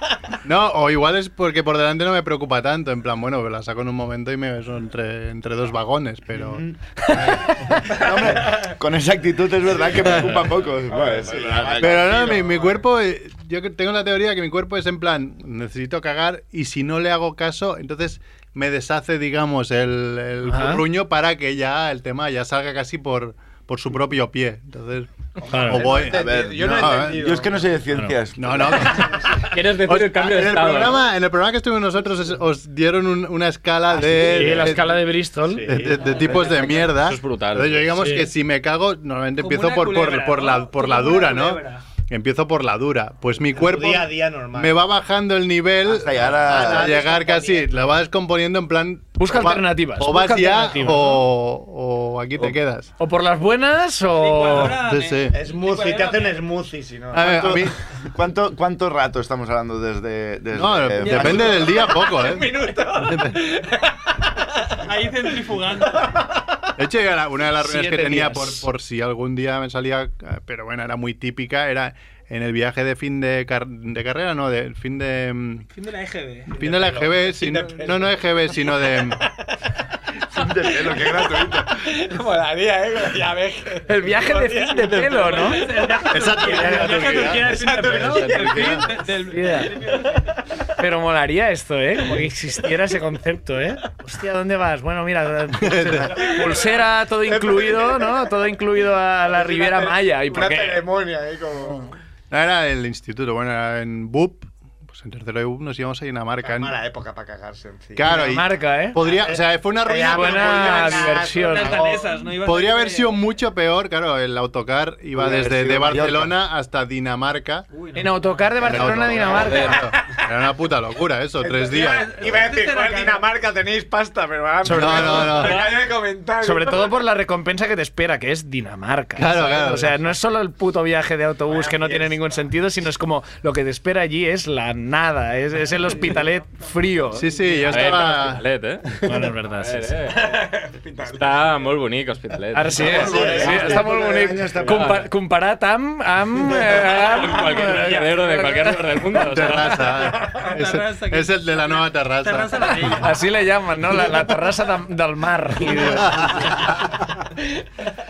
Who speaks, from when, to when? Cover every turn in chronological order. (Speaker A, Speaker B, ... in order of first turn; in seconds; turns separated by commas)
Speaker A: 0.4-7.7, Speaker B: 6.3-12.4, Speaker A: 10.0-10.3, Speaker C: 10.8-12.8, Speaker A: 11.8-27.2, Speaker D: 20.4-20.8, Speaker C: 25.4-27.7, Speaker D: 25.5-25.9, Speaker B: 26.0-29.1, Speaker A: 28.4-35.0, Speaker E: 29.3-31.0, Speaker C: 34.0-34.8, Speaker D: 34.2-35.7, Speaker C: 35.5-36.6, Speaker A: 35.6-52.9, Speaker E: 36.3-37.9, Speaker D: 38.0-38.3, Speaker F: 39.4-41.8, Speaker C: 43.5-44.8, Speaker B: 45.8-47.0, Speaker C: 46.3-47.8, Speaker D: 49.2-51.2, Speaker D: 53.0-54.8, Speaker F: 54.1-56.5, Speaker A: 54.8-55.4, Speaker C: 55.3-57.6, Speaker A: 57.1-57.8, Speaker B: 57.2-61.8, Speaker A: 60.5-63.4, Speaker C: 61.2-64.0, Speaker C: 64.6-64.9, Speaker F: 64.8-66.2, Speaker C: 65.9-66.2, Speaker A: 66.8-75.7, Speaker D: 67.6-68.7, Speaker F: 75.7-76.6, Speaker A: 76.5-79.2, Speaker C: 76.6-79.5, Speaker B: 80.3-81.7, Speaker C: 80.3-88.9, Speaker D: 83.8-85.6, Speaker F: 85.0-90.3, Speaker A: 86.1-88.9, Speaker D: 89.3-89.7, Speaker C: 89.8-90.2, Speaker D: 90.8-100.8, Speaker A: 95.6-96.2, Speaker C: 96.1-98.2, Speaker C: 99.2-101.9, Speaker A: 102.3-106.8, Speaker C: 106.4-108.3, Speaker A: 107.9-111.2, Speaker D: 108.1-109.0, Speaker C: 109.0-112.1, Speaker D: 110.1-111.8, Speaker F: 111.3-113.2, Speaker A: 112.4-117.7, Speaker B: 115.2-116.3, Speaker F: 117.7-118.6, Speaker D: 117.9-119.8, Speaker A: 118.6-122.1, Speaker E: 119.4-119.8, Speaker C: 119.9-120.2, Speaker C: 121.4-126.9, Speaker F: 121.6-123.3, Speaker A: 124.6-125.7, Speaker D: 126.4-137.3, Speaker A: 129.2-130.0, Speaker C: 131.5-132.2, Speaker F: 135.9-136.3, Speaker A: 137.1-138.4, Speaker E: 137.7-138.9, Speaker D: 139.0-139.9, Speaker E: 139.6-140.2, Speaker C: 140.1-141.7, Speaker E: 141.1-143.5, Speaker D: 142.5-148.8, Speaker C: 142.7-144.8, Speaker B: 142.9-145.0, Speaker E: 144.6-145.1, Speaker E: 146.8-149.9, Speaker A: 149.1-153.0, Speaker C: 149.9-150.5, Speaker F: 150.4-153.2, Speaker D: 152.8-156.5, Speaker A: 155.7-157.0